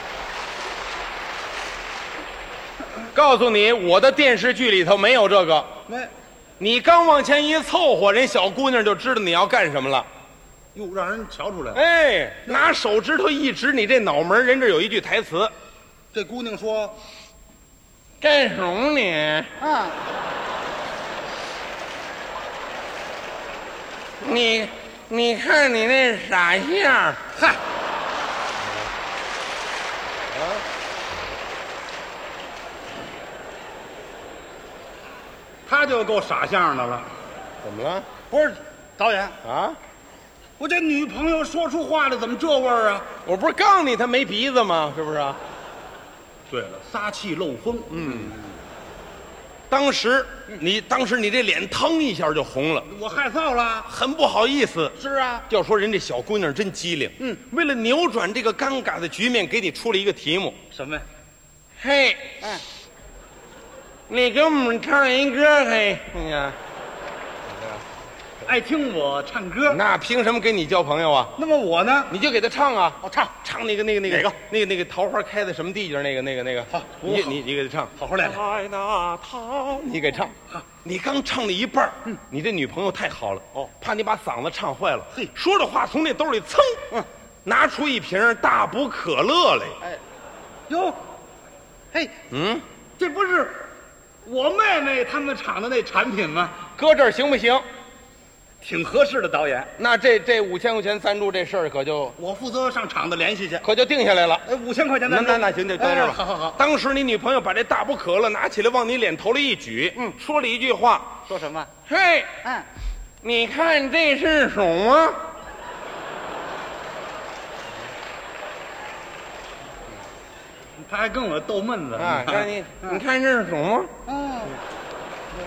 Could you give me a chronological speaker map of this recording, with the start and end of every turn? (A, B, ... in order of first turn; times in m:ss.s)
0:03.1-0:05.8 A
0:05.9-0:06.1 B
0:06.6-0:10.1 A
0:10.7-0:11.8 B
0:11.7-0:15.5 A
0:16.1-0:17.0 B
0:18.2-0:19.5 A
0:19.6-0:20.0 B
0:24.2-0:27.2 A
0:27.4-0:27.6 B
0:30.3-0:30.6 A
0:35.7-0:37.2 B
0:37.6-0:38.1 A
0:38.3-0:39.4 B
0:39.4-0:39.8 A
0:40.6-0:43.1 B
0:43.2-0:45.4 A
0:46.5-0:48.5 B
0:47.9-0:48.3 A
0:49.7-0:52.9 A
0:52.9-0:53.9 B
0:53.8-0:55.0 A
0:55.0-0:55.5 B
0:55.5-1:00.6 A
1:00.7-1:01.0 B
1:01.8-1:02.5 A
1:04.1-1:06.6 A
1:07.4-1:07.8 A
1:08.4-1:09.8 B
1:09.7-1:11.3 A
1:11.4-1:12.1 B
1:12.1-1:26.9 A
1:13.0-1:13.3 B
1:14.1-1:14.4 B
1:16.7-1:17.4 B
1:18.0-1:18.4 B
1:27.4-1:29.8 A
1:30.7-1:31.0 B
1:32.3-1:32.6 A
1:33.0-1:33.7 B
1:34.2-1:36.6 B
1:36.8-1:37.6 A
1:38.6-1:39.7 B
1:39.8-1:42.2 A
1:42.2-1:43.6 B
1:43.6-1:44.4 A
1:44.4-1:46.6 B
1:45.1-1:51.2 A
1:51.3-1:51.7 B
1:51.8-1:52.4 A
1:53.2-1:55.3 A
2:00.8-2:03.0 B
2:02.0-2:03.9 A
2:04.0-2:04.6 B